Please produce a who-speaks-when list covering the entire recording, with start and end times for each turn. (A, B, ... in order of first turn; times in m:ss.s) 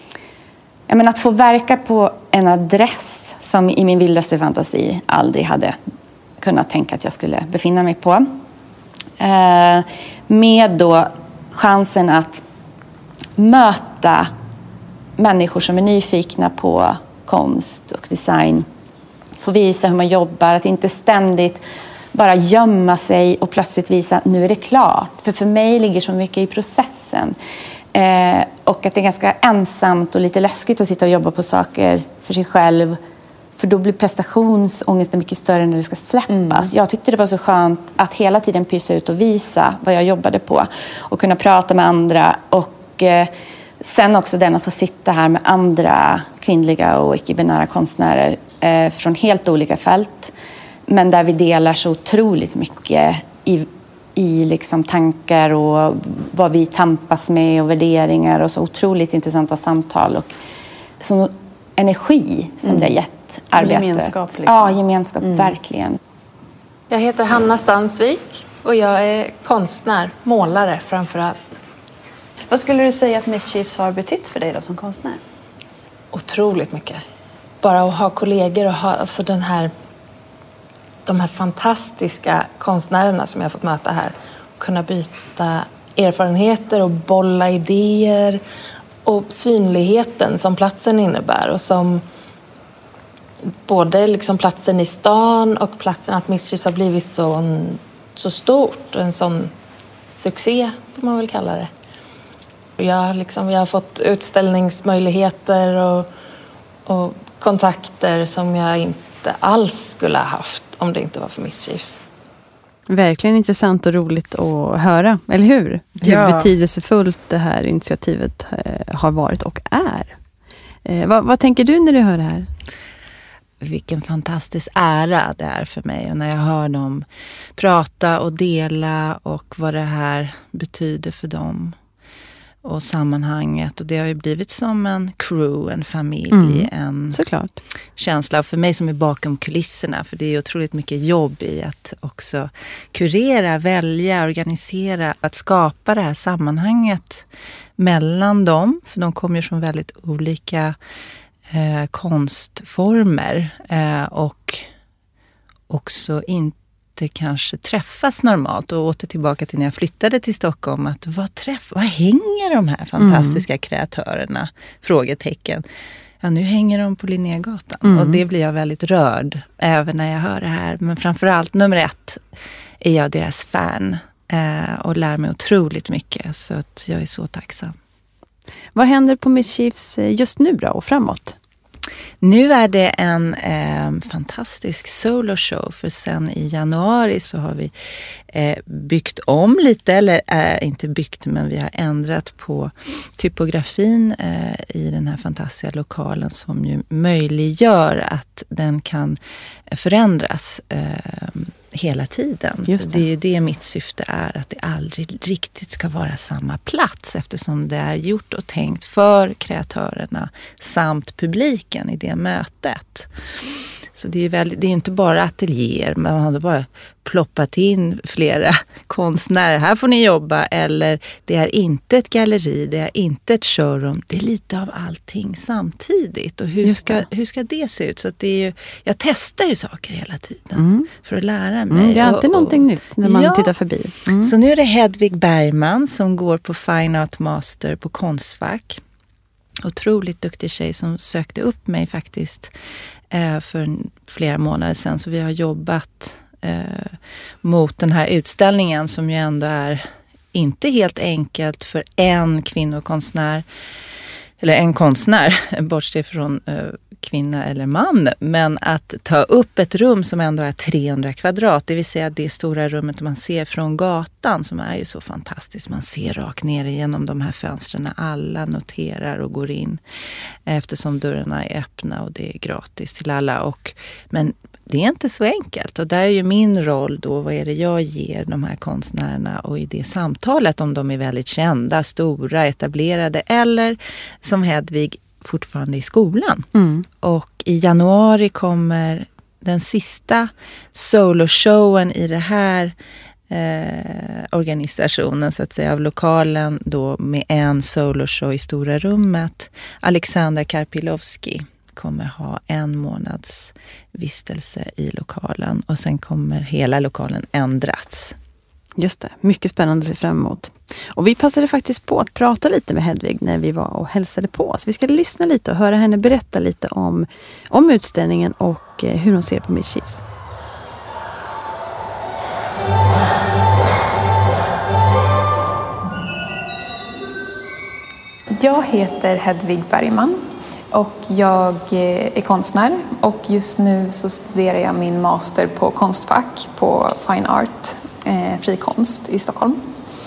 0:00.9-0:05.8 A
0:06.4-0:08.2 A
0:09.2-0:12.4 A
0:13.4-0:14.3 A
0:15.2-0:18.7 A
0:19.4-0:21.6 A
0:22.1-0:27.4 A
0:27.9-0:33.0 A
0:33.6-0:50.3 A
0:36.3-0:36.7 B
0:50.9-1:00.3 A
1:01.0-1:06.0 A
1:02.6-1:02.9 B
1:03.5-1:05.5 B
1:06.9-1:11.5 C
1:12.5-1:15.2 B
1:16.1-1:17.0 C
1:17.6-1:19.7 C
1:21.0-1:28.4 C
1:29.0-1:32.0 C
1:33.6-1:39.5 C
1:40.1-1:41.7 C
1:42.8-1:46.1 C
1:46.8-1:52.0 C
1:52.9-2:00.2 B
1:56.0-1:56.5 D
2:00.8-2:02.5 B
2:03.6-2:11.8 D
2:12.6-2:17.2 D
2:16.3-2:17.6 B
2:18.0-2:27.2 D
2:27.8-2:30.8 D
2:31.5-2:34.7 D
2:35.7-2:45.6 D
2:43.0-2:43.4 B
2:46.2-2:52.2 D
2:47.8-2:48.2 B
2:52.8-2:57.8 D
2:58.7-3:01.4 B
3:02.2-3:07.7 D
3:08.3-3:19.2 D
3:19.7-3:53.5 D
3:22.7-3:23.0 B
3:46.6-3:47.0 B
3:50.6-3:50.9 B
3:51.7-3:54.3 B
3:54.2-3:58.8 D
3:59.6-4:02.5 D
4:03.1-4:13.4 D
4:14.4-4:29.8 D
4:30.4-4:46.5 D
4:46.5-4:46.8 B
4:47.0-4:52.7 D
4:53.3-5:08.2 D
5:08.8-5:20.0 B
5:28.3-5:39.6 E